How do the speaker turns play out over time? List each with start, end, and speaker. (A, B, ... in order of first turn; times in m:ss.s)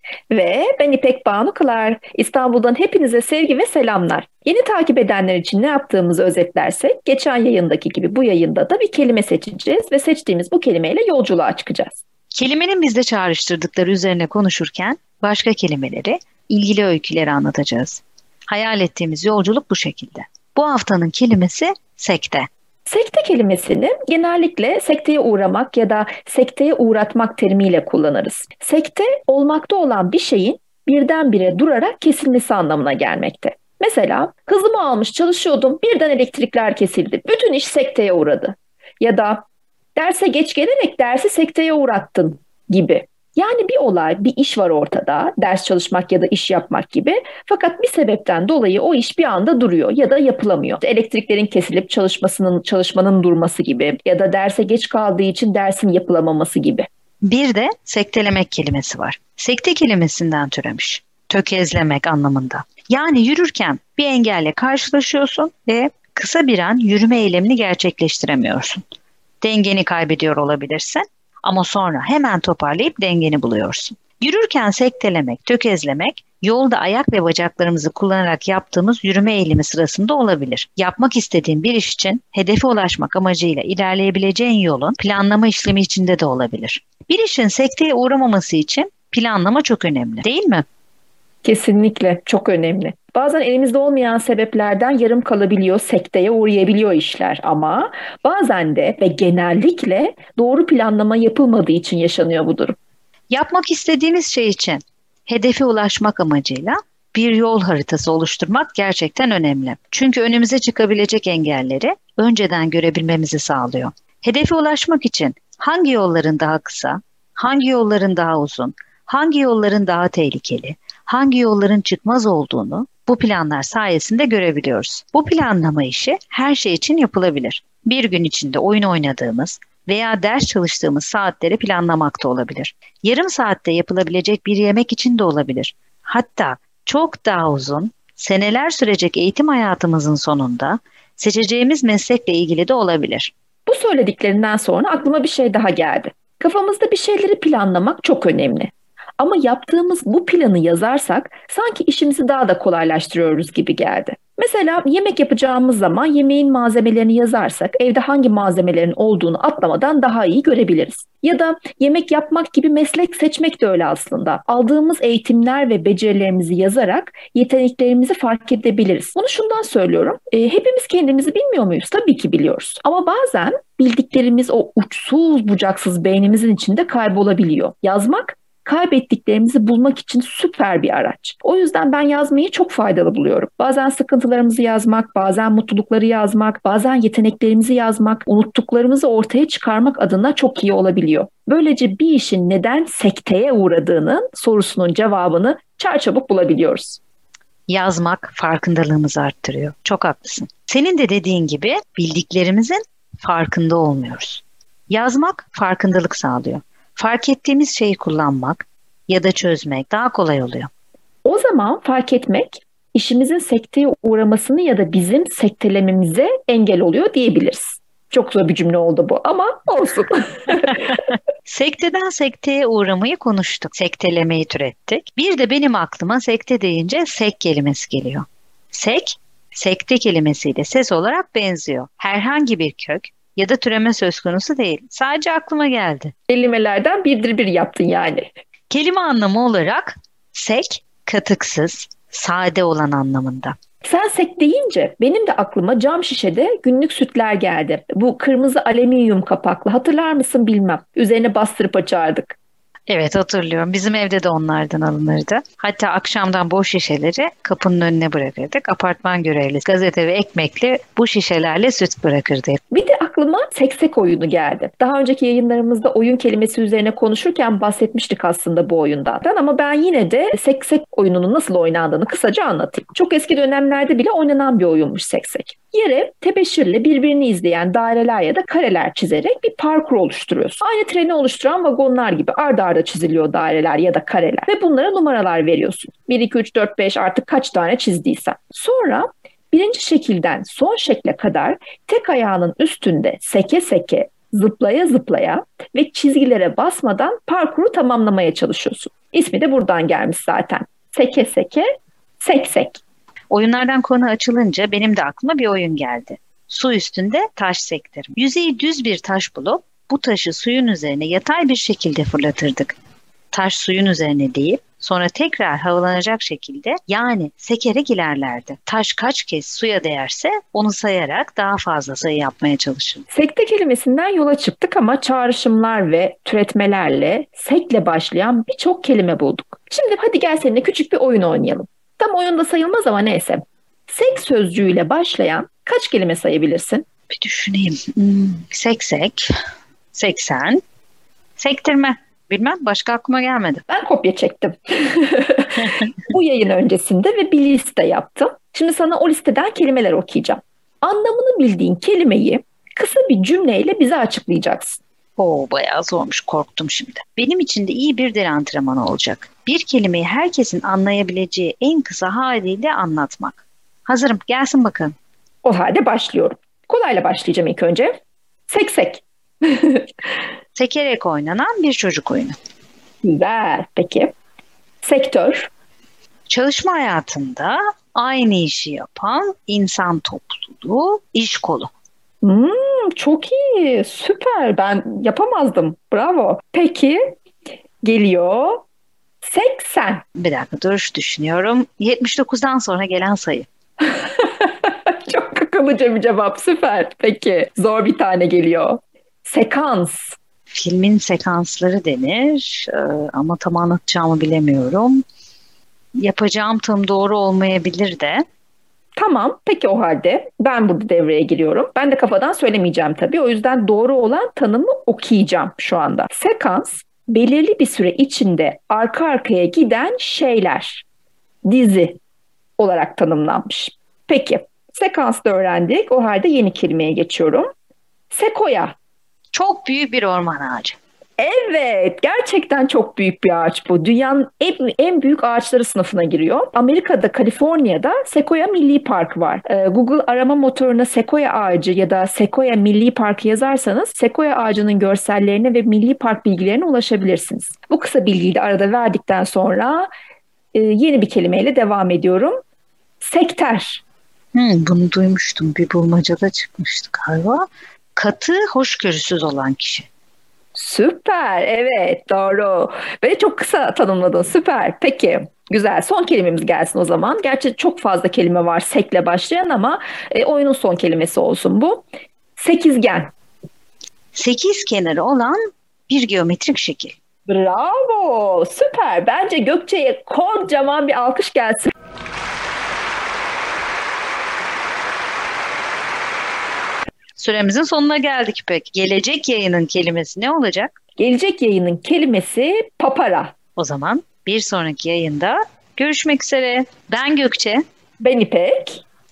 0:00.3-0:12.0 A
0:12.3-0:22.5 B
0:22.9-0:39.4 A
0:40.0-0:56.9 A
0:57.2-1:08.8 B
1:09.4-1:30.6 B
1:31.4-1:42.8 A
1:43.3-2:23.3 B
2:23.7-3:17.0 A
3:17.7-3:30.7 B
3:31.2-3:40.8 A
3:41.4-3:56.1 B
3:56.3-3:58.3 A
3:58.7-4:03.5 B
4:03.8-4:12.4 A
4:12.9-4:22.6 B
4:22.7-5:01.6 A
5:02.2-5:02.8 A
5:03.3-5:12.8 B
5:13.3-5:23.0 B
5:23.1-5:36.8 A
5:37.1-5:39.2 B
5:39.9-5:40.6 B
5:41.4-5:43.6 B
5:43.7-5:54.8 A
5:55.2-6:04.9 B
6:05.4-6:07.9 A
6:08.5-6:10.1 A
6:10.6-6:12.4 B
6:13.0-6:14.1 A
6:14.8-6:15.5 A
6:16.3-6:21.7 B
6:22.2-6:27.0 A
6:27.8-6:28.6 A
6:29.2-6:30.0 A
6:30.2-6:33.5 B
6:33.8-6:40.2 A
6:40.5-6:45.0 B
6:46.0-6:48.2 B
6:49.0-7:00.8 A
7:01.4-7:02.0 A
7:02.6-7:07.5 A
7:08.1-7:08.8 A
7:09.3-7:10.8 B
7:11.2-7:29.9 A
7:30.5-7:32.4 A
7:33.0-7:33.8 A
7:34.3-7:39.9 B
7:40.6-7:51.9 A
7:52.4-7:53.1 A
7:54.1-7:57.0 B
7:57.3-8:01.7 A
8:07.2-8:10.8 B
8:11.0-8:13.3 A
8:13.6-8:17.6 B
8:18.0-8:18.8 A